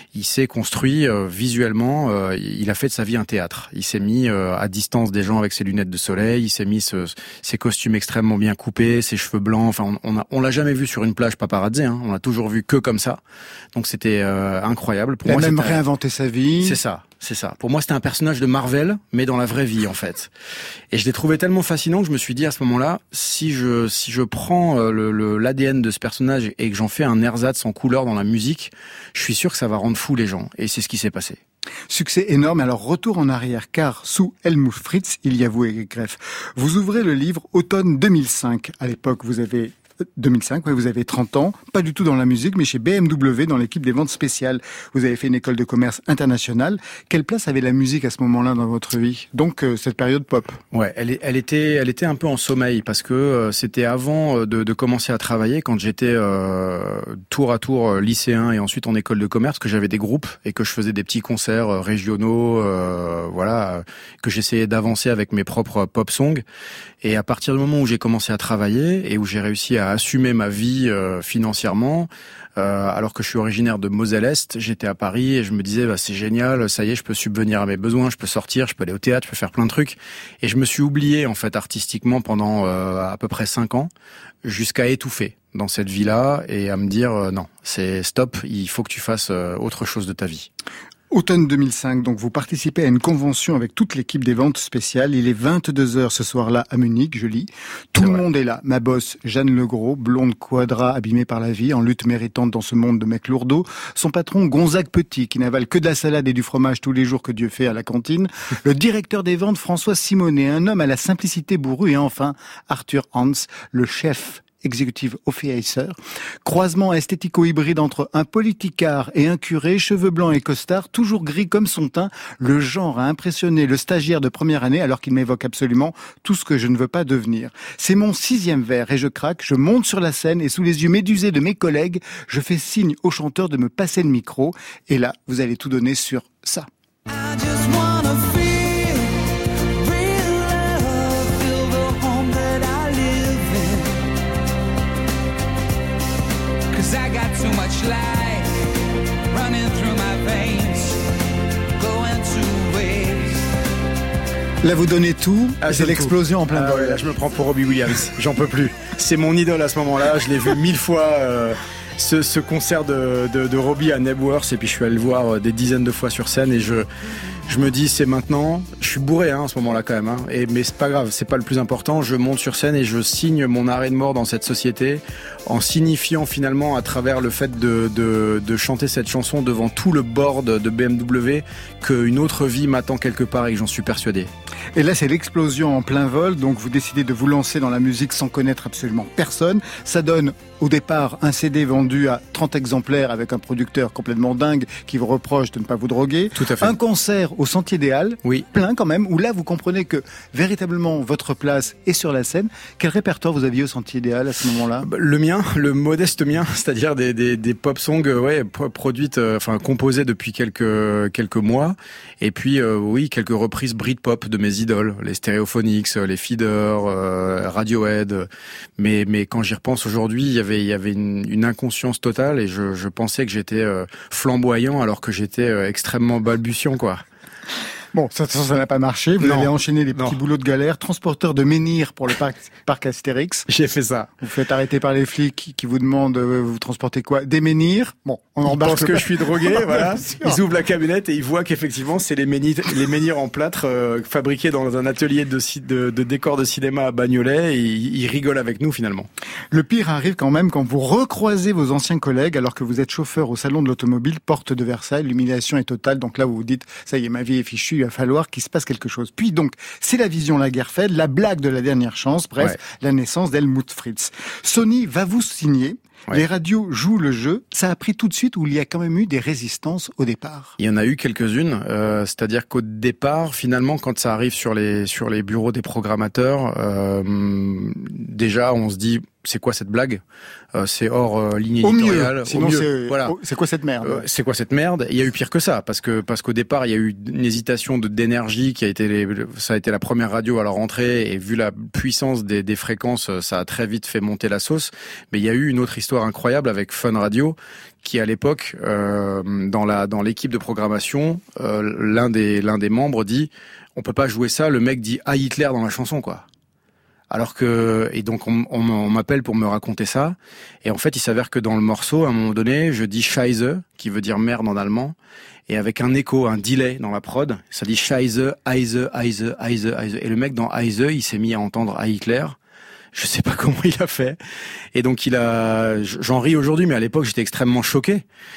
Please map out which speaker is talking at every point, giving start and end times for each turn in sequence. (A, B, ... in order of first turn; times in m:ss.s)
0:00.1-0:13.2 A
0:13.7-0:15.8 A
0:15.2-0:16.8 B
0:16.6-0:20.3 A
0:20.9-0:31.4 A
0:31.9-0:50.6 B
0:50.7-1:06.4 A
1:07.0-1:23.9 A
1:24.4-1:30.5 A
1:31.1-2:16.7 B
2:17.2-2:19.1 C
2:19.8-2:23.9 C
2:26.7-2:28.5 C
2:29.3-2:31.0 C
2:31.8-2:33.4 C
2:34.6-2:37.1 B
2:35.6-2:46.9 A
2:47.5-3:04.3 A
3:04.8-3:24.9 B
3:16.4-3:16.8 A
3:24.8-3:47.0 A
3:47.9-3:53.5 B
3:49.2-3:50.2 A
3:53.5-3:54.1 A
3:54.2-4:00.4 B
3:58.5-4:09.1 A
4:09.5-4:30.6 B
4:30.6-4:40.0 A
4:40.6-4:43.1 A
4:41.6-4:44.0 B
4:43.8-5:06.3 A
5:07.1-5:15.0 A
5:15.5-5:22.4 A
5:22.9-5:24.2 A
5:24.8-5:28.0 A